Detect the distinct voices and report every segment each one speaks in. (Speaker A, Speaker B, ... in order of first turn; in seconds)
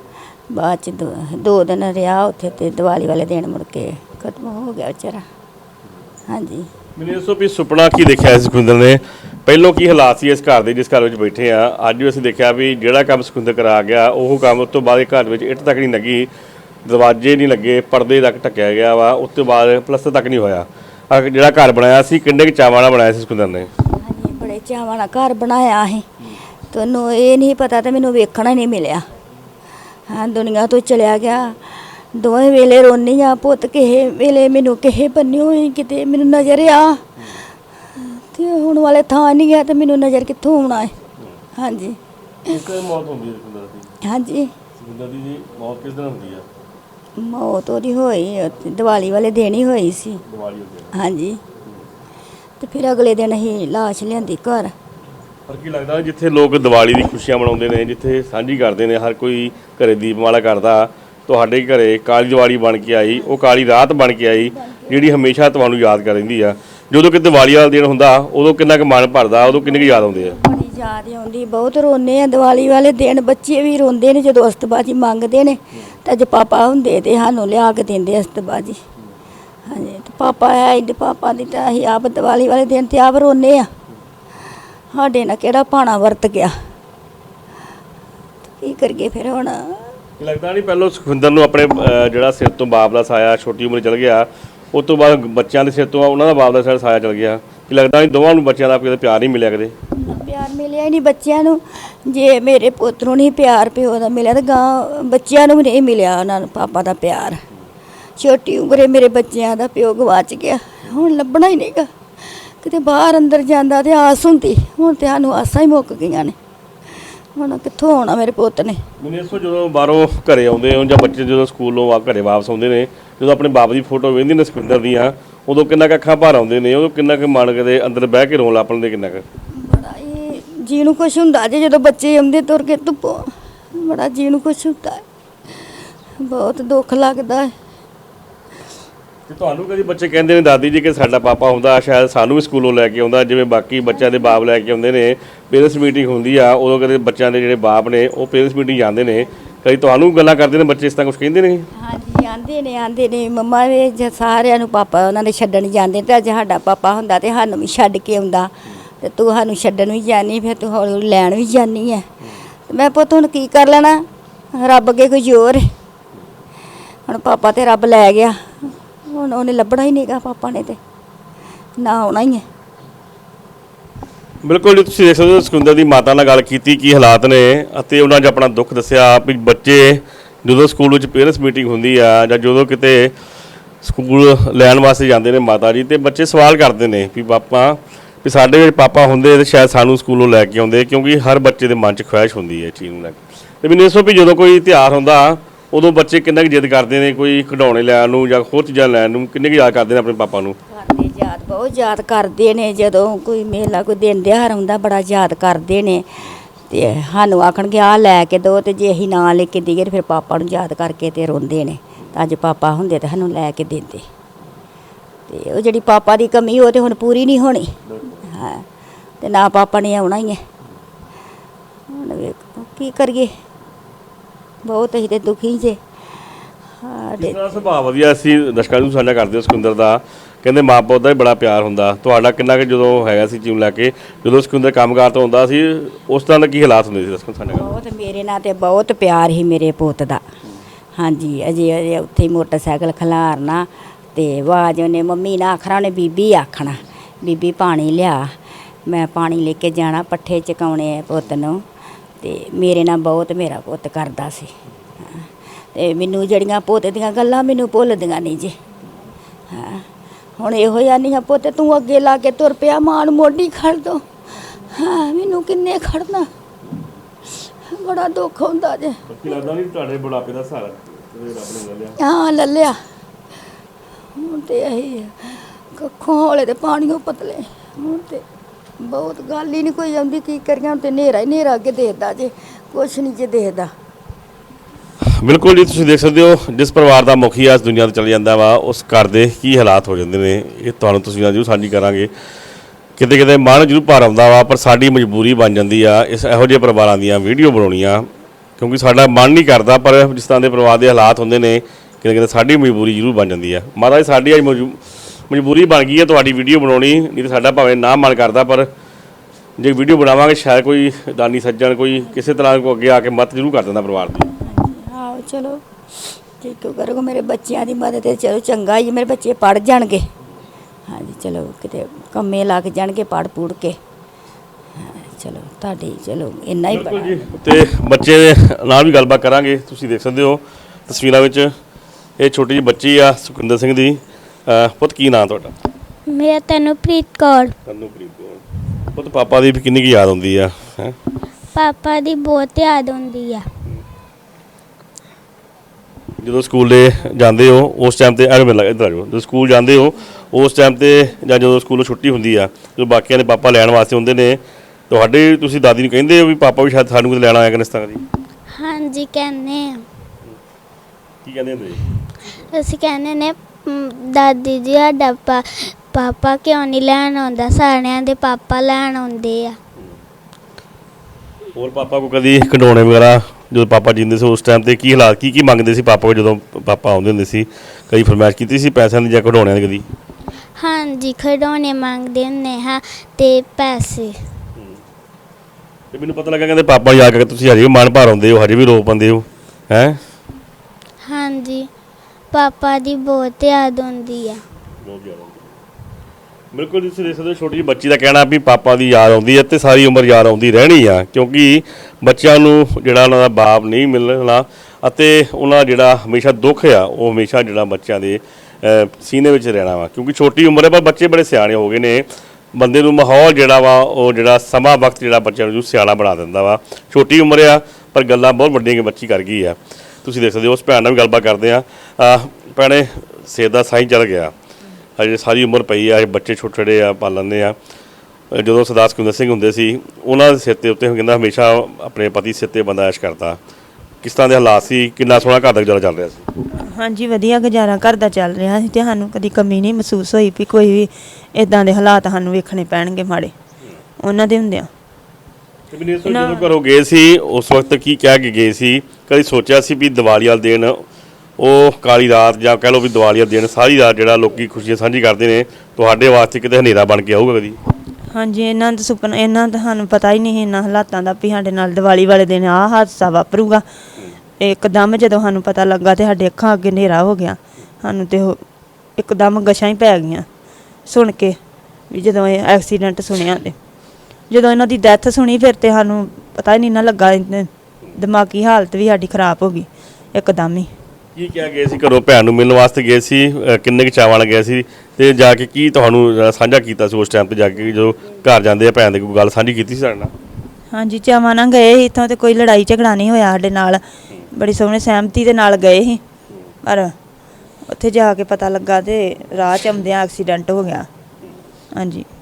Speaker A: 0.5-5.2, 6.3-6.7, 23.9-26.1, 26.7-29.1, 30.1-37.0, 38.0-41.0, 41.6-42.6, 44.0-44.5, 47.2-50.2, 50.9-51.4, 52.6-54.7, 64.5-65.1, 69.5-78.8, 79.7-83.7, 84.9-86.5, 88.6-89.9, 100.0-107.4, 108.2-116.4, 116.9-118.8, 129.5-137.5, 151.8-162.1, 162.7-165.7, 167.1-170.8, 171.8-172.4, 200.7-206.1, 206.7-214.1, 215.3-217.8, 218.3-218.7, 219.2-220.4, 221.9-223.3, 224.6-225.8, 226.8-227.4, 237.6-240.2, 241.0-251.7, 252.2-258.6, 259.5-259.9, 260.4-266.3, 267.2-269.0, 272.0-272.8, 274.1-278.2, 278.8-283.7, 314.4-320.1, 320.9-323.8, 324.8-327.2
Speaker B: 7.0-16.3, 16.9-23.7, 42.5-43.9, 44.8-46.5, 50.3-50.9, 55.5-70.4, 90.2-99.8, 119.0-129.2, 139.3-151.7, 174.4-183.1, 183.8-200.6, 217.9-218.2, 227.2-237.7, 269.1-272.0, 285.0-292.1, 293.0-308.7, 309.6-314.3, 326.7-331.5, 332.2-335.6, 337.7-338.4, 338.9-341.0, 346.2-358.0, 361.2-361.8, 371.6-379.9, 385.9-390.0, 394.8-395.5, 396.5-424.3, 425.0-427.6, 428.3-433.4, 434.0-436.3, 445.7-450.8, 451.4-457.6, 481.1-490.1
Speaker C: 336.1-337.6, 341.5-343.5, 358.5-359.8, 362.4-369.6, 380.6-384.2, 391.0-391.7, 392.3-394.4
Speaker D: 436.6-443.3, 444.0-444.7, 446.1-446.4, 458.1-463.6, 464.4-468.4, 469.0-470.3, 470.9-471.4, 471.9-473.6, 474.3-480.7, 490.7-493.8, 494.3-496.0, 496.6-496.9, 497.7-500.9, 501.8-502.1